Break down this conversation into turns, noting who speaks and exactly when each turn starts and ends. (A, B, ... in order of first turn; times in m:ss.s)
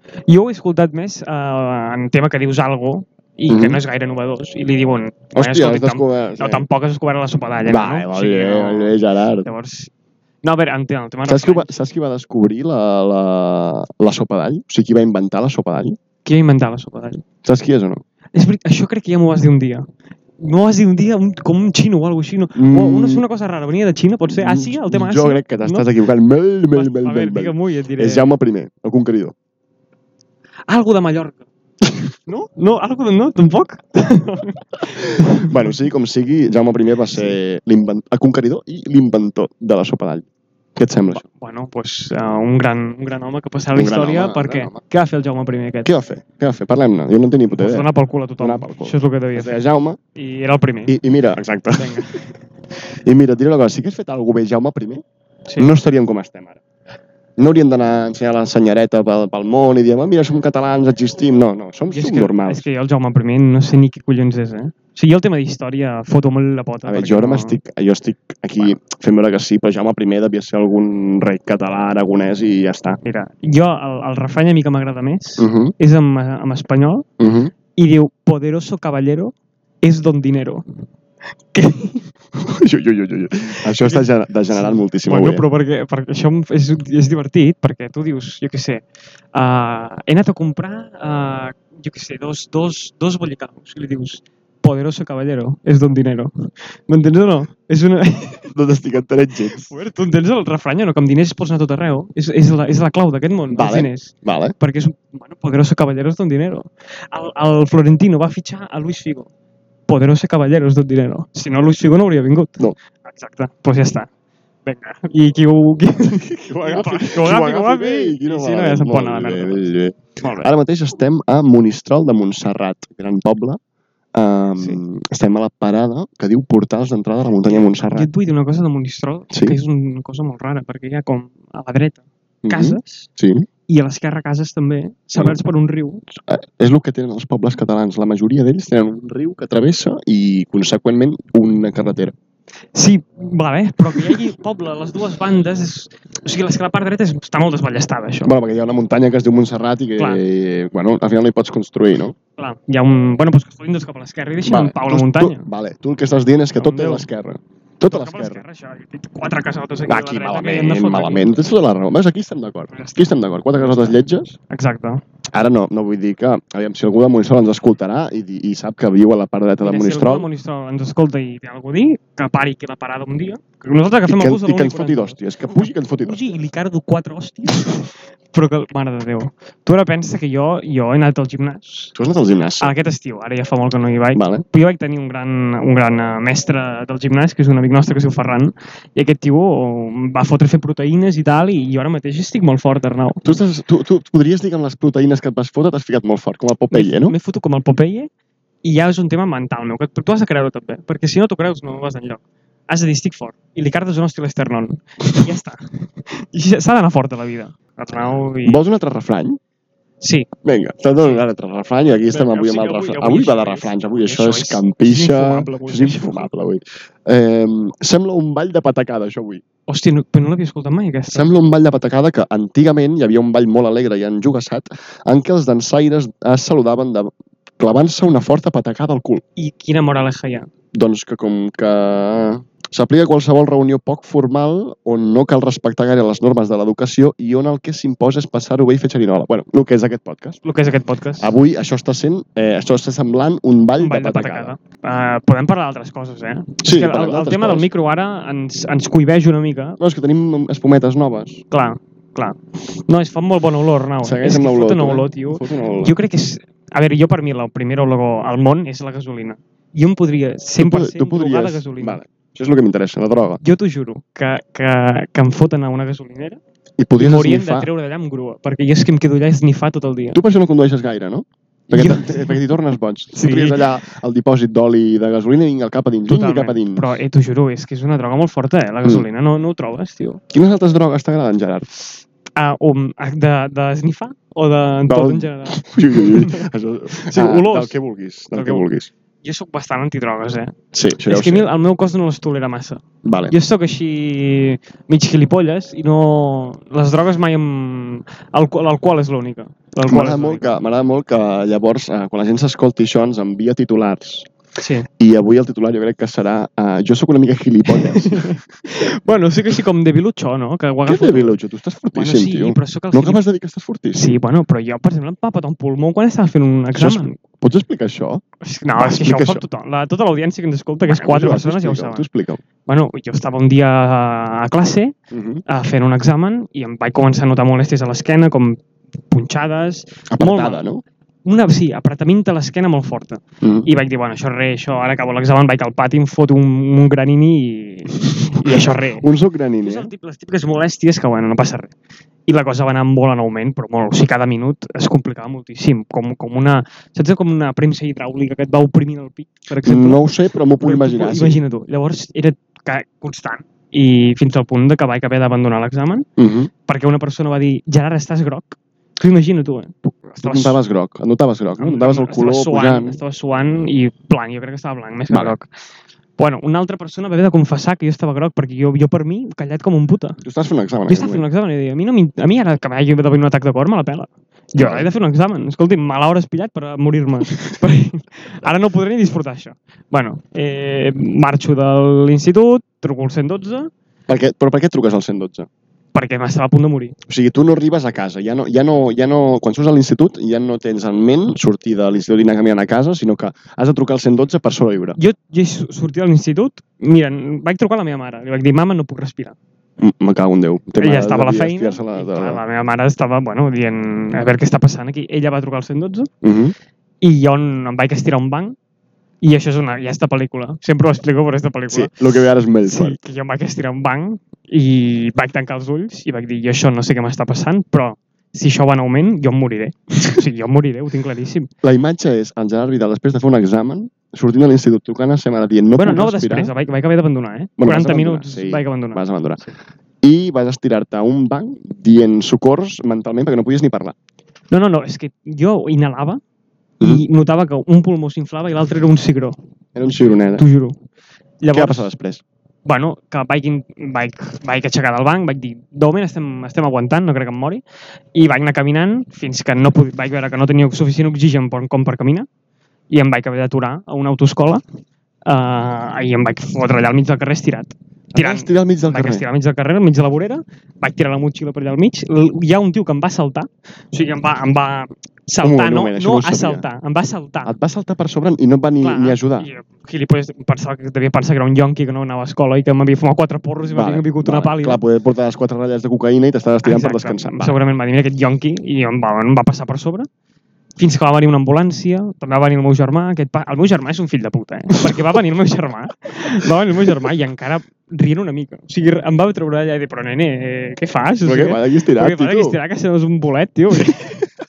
0:00.3-0:09.9 A
0:03.5-0:03.8 B
0:05.4-0:06.7 B
0:07.6-0:09.5 B
0:10.4-0:11.7 A
0:11.2-0:16.0 B
0:16.2-0:17.2 A
0:17.4-0:18.0 B
0:18.3-0:19.9 A
0:20.4-0:25.9 A
0:22.6-0:23.2 B
0:24.3-0:29.3 B
0:26.7-0:28.3 A
0:30.7-0:31.5 A
0:32.3-0:35.7 A
0:35.2-0:41.2 B
0:37.1-0:37.4 A
0:41.1-0:45.9 A
0:43.7-0:44.8 B
0:45.8-0:47.9 B
0:47.5-0:49.6 A
0:48.4-0:50.0 B
0:50.2-0:51.0 A
0:50.9-0:52.1 B
0:51.8-0:52.3 A
0:53.1-0:55.0 B
0:55.6-0:56.6 B
0:57.4-1:02.6 B
1:01.9-1:07.6 A
1:06.9-1:13.0 B
1:13.0-1:17.1 A
1:15.4-1:15.7 B
1:17.2-1:17.5 B
1:17.8-1:20.6 A
1:21.5-1:22.1 A
1:22.4-1:25.4 B
1:23.6-1:38.5 A
1:38.5-1:39.7 B
1:39.5-1:49.3 A
1:43.5-1:44.6 B
1:49.9-1:54.1 A
1:54.7-1:59.7 A
1:56.5-2:03.6 B
2:00.2-2:00.5 A
2:04.2-2:08.1 B
2:07.4-2:13.1 A
2:09.3-2:09.6 B
2:12.4-2:13.5 B
2:13.7-2:16.0 A
2:16.2-2:22.1 B
2:22.7-2:28.3 A
2:28.2-2:32.2 B
2:30.0-2:30.2 A
2:32.4-2:35.5 A
2:34.5-2:38.4 B
2:36.6-2:37.1 A
2:37.8-2:41.4 A
2:39.9-2:44.4 B
2:42.7-2:43.0 A
2:43.5-2:45.0 A
2:45.3-2:50.3 B
2:49.6-3:01.9 A
2:54.1-2:56.2 B
3:02.0-3:02.7 B
3:02.6-3:13.2 A
3:04.1-3:04.4 B
3:13.2-3:17.2 B
3:16.7-3:18.1 A
3:18.6-3:28.6 A
3:28.4-3:29.4 B
3:30.0-3:30.3 A
3:30.4-3:39.4 B
3:32.1-3:36.3 A
3:39.7-3:41.3 A
3:41.1-3:49.2 B
3:49.4-3:50.5 A
3:50.7-4:00.4 B
4:00.4-4:01.4 A
4:01.2-4:04.6 B
4:03.8-4:09.8 A
4:06.6-4:07.7 B
4:09.8-4:11.4 B
4:11.5-4:22.0 A
4:14.0-4:16.0 B
4:20.6-4:23.4 B
4:23.4-4:26.4 A
4:26.8-4:27.7 B
4:27.0-4:30.2 A
4:30.1-4:37.0 B
4:31.7-4:32.4 A
4:33.1-4:33.7 A
4:36.1-4:40.2 A
4:40.3-4:41.8 B
4:42.4-4:47.7 A
4:44.9-4:48.9 B
4:48.3-4:48.7 A
4:49.2-4:50.5 A
4:50.7-4:51.5 B
4:51.1-5:00.5 A
4:53.0-4:53.4 B
4:59.9-5:04.3 B
5:04.6-5:04.9 A
5:05.0-5:08.4 B
5:07.7-5:11.4 A
5:10.9-5:14.2 B
5:11.9-5:13.2 A
5:14.0-5:17.2 A
5:16.7-5:18.2 B
5:18.4-5:22.1 A
5:18.8-5:19.4 B
5:20.9-5:22.4 B
5:22.7-5:25.0 A
5:25.1-5:25.4 B
5:25.5-5:30.6 A
5:30.1-5:30.8 B
5:31.2-5:39.0 A
5:33.4-5:33.7 B
5:38.1-5:39.9 B
5:39.6-5:41.7 A
5:42.3-5:50.0 A
5:49.6-5:51.4 B
5:50.6-5:56.1 A
5:56.2-5:56.5 B
5:56.7-6:00.6 A
6:00.1-6:03.0 B
6:01.6-6:05.5 A
6:05.1-6:05.4 B
6:06.2-6:10.2 A
6:10.2-6:11.3 B
6:10.9-6:23.7 A
6:14.6-6:14.9 B
6:24.1-6:25.5 B
6:25.9-6:27.0 A
6:27.1-6:35.0 B
6:35.0-6:39.4 A
6:39.8-6:42.4 B
6:40.8-6:46.1 A
6:46.2-6:46.6 B
6:47.0-6:48.6 A
6:49.2-7:01.5 A
6:51.7-6:53.0 B
7:01.6-7:06.5 B
7:05.8-7:09.0 A
7:07.6-7:09.4 B
7:10.0-7:14.0 B
7:14.5-7:16.2 A
7:16.8-7:19.4 A
7:19.8-7:20.4 B
7:20.2-7:20.8 A
7:21.4-7:21.9 A
7:21.5-7:22.2 B
7:22.7-7:27.6 A
7:28.1-7:32.3 A
7:32.9-7:34.6 A
7:35.3-7:47.6 A
7:38.1-7:39.3 B
7:45.4-7:46.6 B
7:47.4-7:49.5 B
7:48.8-7:54.8 A
7:53.6-7:57.6 B
7:56.6-8:00.1 A
8:00.8-8:14.3 A
8:11.2-8:12.6 B